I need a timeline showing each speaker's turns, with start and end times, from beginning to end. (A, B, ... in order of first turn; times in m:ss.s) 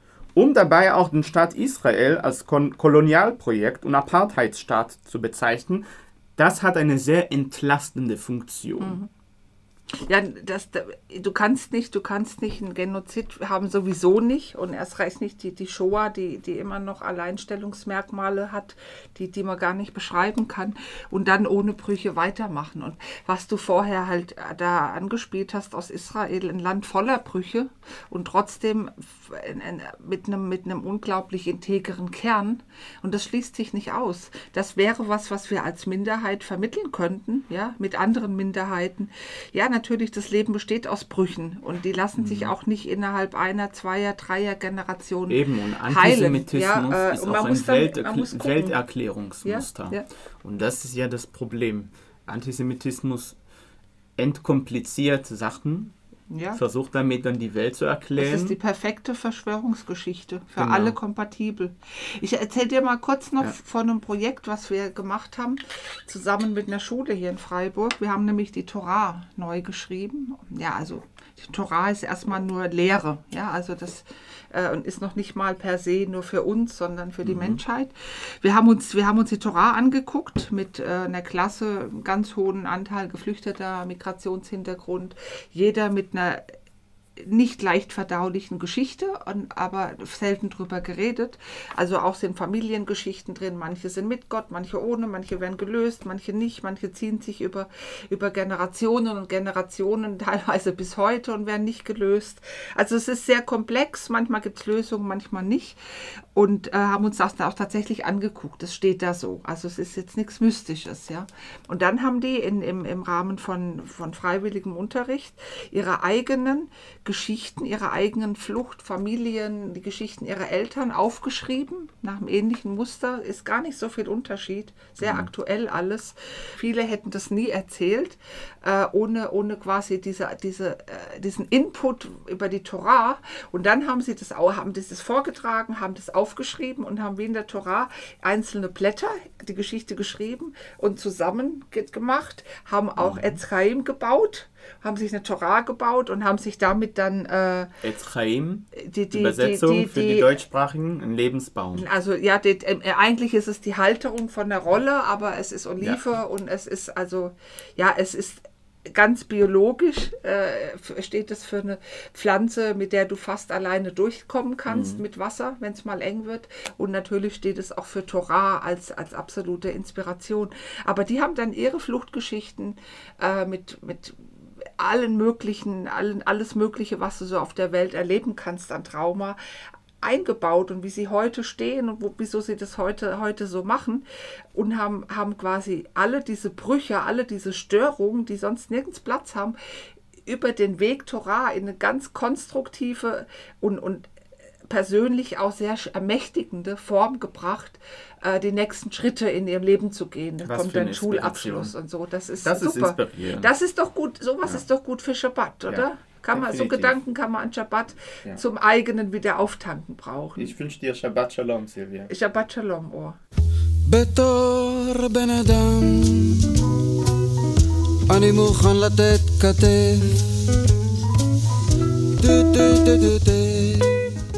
0:00.3-0:05.8 A
0:06.4-0:09.0 A
0:08.8-0:09.1 B
0:09.9-0:48.8 B
0:42.2-0:42.5 A
0:45.3-0:53.4 A
0:49.4-0:50.0 B
0:54.2-0:55.9 A
0:56.3-0:56.6 B
0:56.5-0:58.6 A
0:58.2-1:26.4 B
1:00.6-1:01.0 A
1:17.2-1:17.6 A
1:27.2-1:45.8 B
1:46.3-2:27.7 B
2:05.0-2:05.3 A
2:23.0-2:23.4 A
2:27.8-2:31.8 A
2:28.7-2:30.3 B
2:31.7-2:59.4 B
2:44.7-2:45.0 A
3:00.0-3:09.6 B
3:10.2-3:14.1 B
3:14.7-3:30.5 B
3:20.4-3:21.7 A
3:22.4-3:23.5 A
3:25.6-3:27.0 A
3:30.3-3:32.1 A
3:32.1-3:33.2 B
3:33.8-3:36.8 C
3:38.1-3:40.4 C
3:42.2-3:44.1 C